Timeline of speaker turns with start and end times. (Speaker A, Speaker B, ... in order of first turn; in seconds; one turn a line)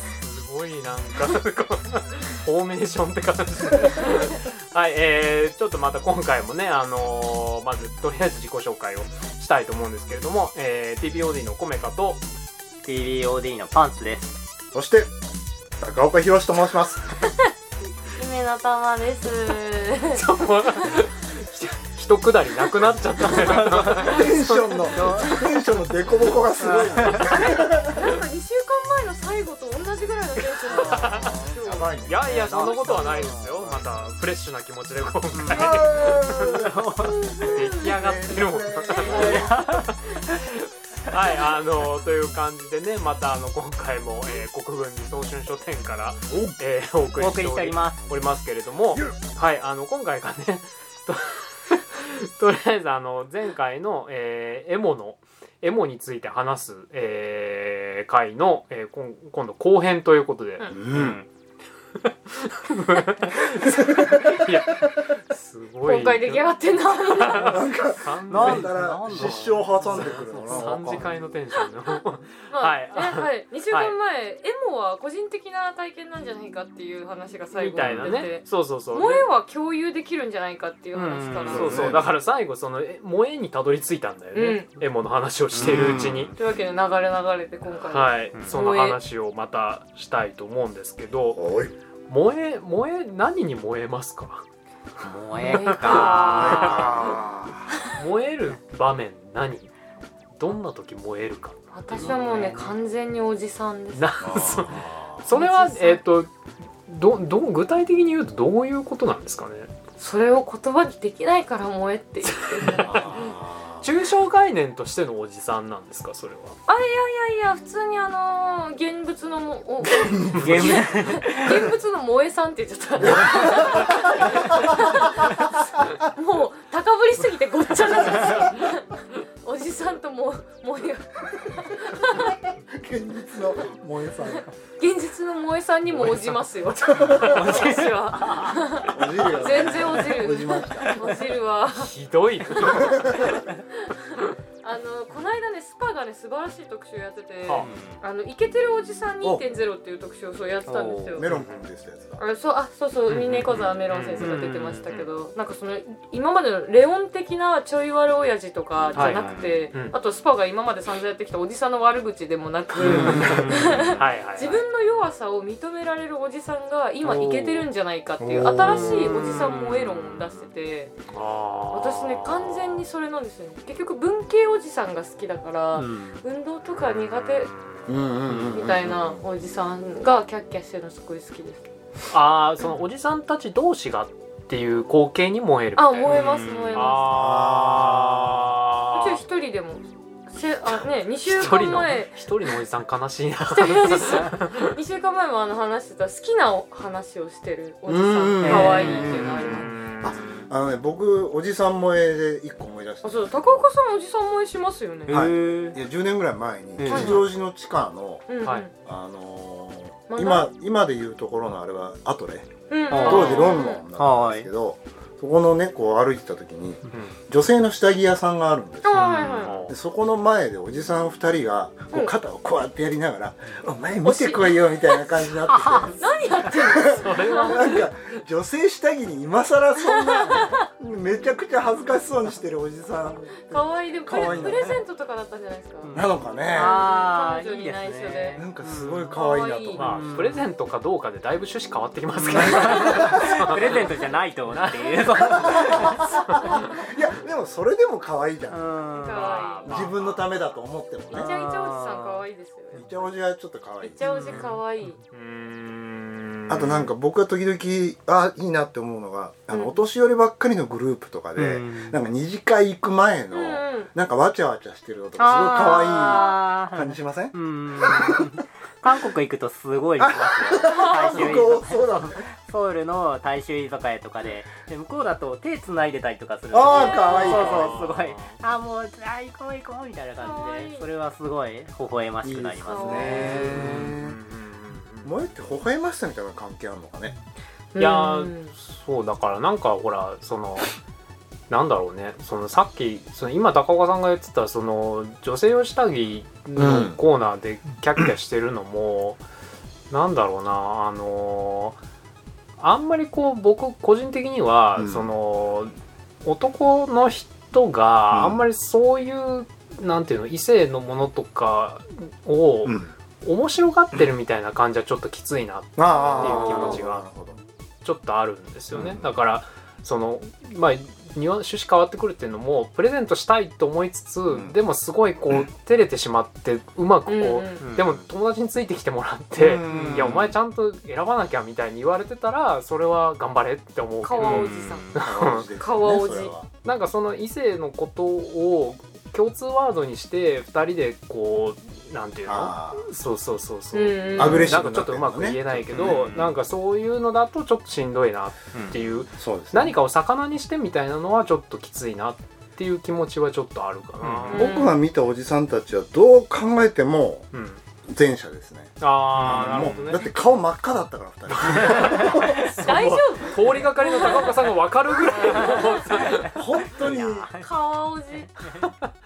Speaker A: 0.2-12.2
Speaker B: 12.8-14.4
Speaker C: 14.7-15.1
Speaker C: 15.8-17.1
Speaker D: 18.1-20.2
Speaker A: 20.1-25.0
Speaker B: 23.2-24.2
Speaker C: 23.8-28.0
Speaker B: 24.9-25.5
Speaker B: 26.6-27.3
Speaker D: 27.2-31.9
Speaker A: 30.7-31.5
Speaker C: 30.7-34.0
Speaker A: 32.0-36.6
Speaker B: 32.3-33.0
Speaker D: 32.6-33.3
Speaker B: 35.3-37.3
Speaker C: 35.5-39.6
Speaker D: 37.1-37.6
Speaker A: 37.4-61.2
Speaker D: 38.9-39.4
Speaker B: 39.1-39.9
Speaker C: 46.3-46.6
Speaker B: 47.1-48.0
Speaker C: 60.7-61.2
Speaker B: 61.0-61.2
Speaker A: 62.0-73.9
Speaker C: 63.7-64.8
Speaker D: 65.8-67.7
Speaker C: 67.4-71.1
Speaker B: 68.3-71.1
Speaker D: 72.5-81.9
Speaker A: 77.5-79.3
Speaker C: 77.8-78.2
Speaker B: 80.9-82.0
Speaker A: 81.5-86.3
Speaker C: 81.5-82.1
Speaker D: 84.3-84.7
Speaker B: 85.5-86.3
Speaker C: 85.5-86.3
Speaker D: 86.3-89.0
Speaker A: 87.9-91.4
Speaker C: 91.3-91.7
Speaker A: 92.1-94.4
Speaker B: 95.0-97.2
Speaker D: 95.4-96.9
Speaker A: 95.8-97.0
Speaker C: 95.9-97.7
Speaker A: 97.9-99.7
Speaker A: 100.3-101.6
Speaker D: 101.7-104.1
Speaker B: 101.9-102.7
Speaker A: 103.9-106.3
Speaker C: 104.2-105.2
Speaker D: 105.3-106.0
Speaker A: 106.9-109.7
Speaker D: 110.0-113.3
Speaker A: 112.2-113.2
Speaker C: 112.8-113.9
Speaker A: 113.8-116.6
Speaker D: 116.7-132.3
Speaker C: 120.0-120.8
Speaker A: 120.3-120.9
Speaker B: 120.3-121.7
Speaker C: 123.0-125.9
Speaker B: 123.0-123.6
Speaker C: 131.9-134.5
Speaker D: 134.8-141.9
Speaker A: 136.0-136.4
Speaker C: 136.9-137.4
Speaker B: 137.1-138.6
Speaker C: 138.9-141.1
Speaker A: 141.7-143.3
Speaker D: 142.5-151.2
Speaker C: 142.7-143.4
Speaker B: 147.6-148.0
Speaker B: 150.7-151.3
Speaker C: 151.2-152.2
Speaker A: 151.2-151.7
Speaker D: 152.2-170.9
Speaker A: 153.1-154.4
Speaker B: 154.2-155.1
Speaker A: 158.9-159.9
Speaker B: 158.9-159.6
Speaker C: 162.8-164.0
Speaker B: 162.8-163.9
Speaker A: 163.0-164.6
Speaker B: 167.0-167.7
Speaker C: 168.2-169.2
Speaker B: 168.4-169.8
Speaker A: 171.1-172.8
Speaker D: 171.7-177.5
Speaker B: 175.7-176.2
Speaker C: 177.8-179.2
Speaker B: 178.3-178.5
Speaker D: 178.4-181.7
Speaker A: 182.1-189.2
Speaker D: 185.8-187.1
Speaker B: 186.1-186.8
Speaker C: 187.0-188.6
Speaker D: 188.9-192.4
Speaker A: 191.2-194.6
Speaker D: 193.4-199.7
Speaker C: 197.9-203.7
Speaker B: 198.4-199.2
Speaker A: 198.5-200.2
Speaker D: 203.0-205.2
Speaker B: 205.1-205.8
Speaker C: 205.1-208.3
Speaker B: 206.8-207.3
Speaker D: 206.8-207.2
Speaker D: 208.3-208.7
Speaker C: 208.8-234.8
Speaker D: 210.1-210.5
Speaker D: 212.7-213.8
Speaker B: 212.9-214.5
Speaker A: 213.0-213.5
Speaker A: 216.9-217.2
Speaker D: 218.8-219.6
Speaker B: 219.0-219.3
Speaker A: 219.2-219.7
Speaker D: 224.0-225.1
Speaker B: 225.5-226.6
Speaker D: 226.0-227.7
Speaker A: 227.0-227.9
Speaker D: 230.0-230.6
Speaker D: 233.3-235.9
Speaker B: 234.2-234.7
Speaker B: 235.8-239.1
Speaker C: 235.9-236.8
Speaker D: 236.5-238.4
Speaker C: 238.4-240.0
Speaker D: 239.1-240.0
Speaker A: 239.7-243.9
Speaker B: 239.8-240.5
Speaker B: 242.2-246.1
Speaker C: 242.3-243.8
Speaker A: 244.6-245.4
Speaker C: 245.4-248.6
Speaker A: 246.2-246.5
Speaker D: 246.3-246.8
Speaker B: 248.5-249.9
Speaker D: 248.9-249.7
Speaker A: 249.1-250.2
Speaker C: 249.7-251.3
Speaker B: 251.1-252.2
Speaker D: 251.1-253.1
Speaker C: 252.7-254.4
Speaker D: 253.8-255.0
Speaker B: 254.0-254.6
Speaker A: 255.1-256.9
Speaker C: 256.5-268.3
Speaker D: 259.5-259.8
Speaker B: 261.4-261.9
Speaker D: 263.3-263.9
Speaker B: 265.2-283.9
Speaker D: 265.5-266.4
Speaker C: 270.0-272.2
Speaker D: 270.6-271.2
Speaker C: 276.5-277.8
Speaker D: 276.6-277.5
Speaker A: 277.2-278.4
Speaker D: 280.2-280.9
Speaker C: 282.2-284.2
Speaker D: 282.6-283.6
Speaker A: 283.5-285.1
Speaker C: 285.0-287.1
Speaker D: 287.7-288.5
Speaker A: 287.8-290.8
Speaker A: 291.5-299.2
Speaker C: 296.6-297.0
Speaker A: 299.9-301.8
Speaker A: 302.6-317.1
Speaker C: 304.8-305.1
Speaker C: 308.1-308.4
Speaker C: 312.6-312.9
Speaker C: 315.8-317.4
Speaker D: 315.9-316.8
Speaker A: 317.8-335.5
Speaker C: 318.7-319.1
Speaker C: 324.3-324.6
Speaker D: 327.1-327.6
Speaker B: 327.6-328.0
Speaker C: 329.4-330.3
Speaker B: 329.6-330.3
Speaker D: 334.0-334.9
Speaker B: 334.2-334.9
Speaker C: 335.0-336.5
Speaker D: 335.6-336.3
Speaker A: 336.6-354.5
Speaker C: 342.3-342.8
Speaker D: 343.7-344.5
Speaker C: 344.2-346.2
Speaker B: 345.7-346.3
Speaker B: 348.5-348.8
Speaker C: 349.2-349.8
Speaker B: 354.0-354.4
Speaker C: 354.1-357.3
Speaker D: 354.3-354.8
Speaker A: 357.3-357.6
Speaker C: 357.9-362.5
Speaker A: 358.8-360.0
Speaker B: 359.1-360.0
Speaker A: 361.3-366.4
Speaker B: 361.6-362.3
Speaker D: 362.6-364.5
Speaker D: 365.0-365.9
Speaker B: 365.4-367.5
Speaker C: 366.3-367.3
Speaker D: 367.4-368.3
Speaker B: 368.2-368.7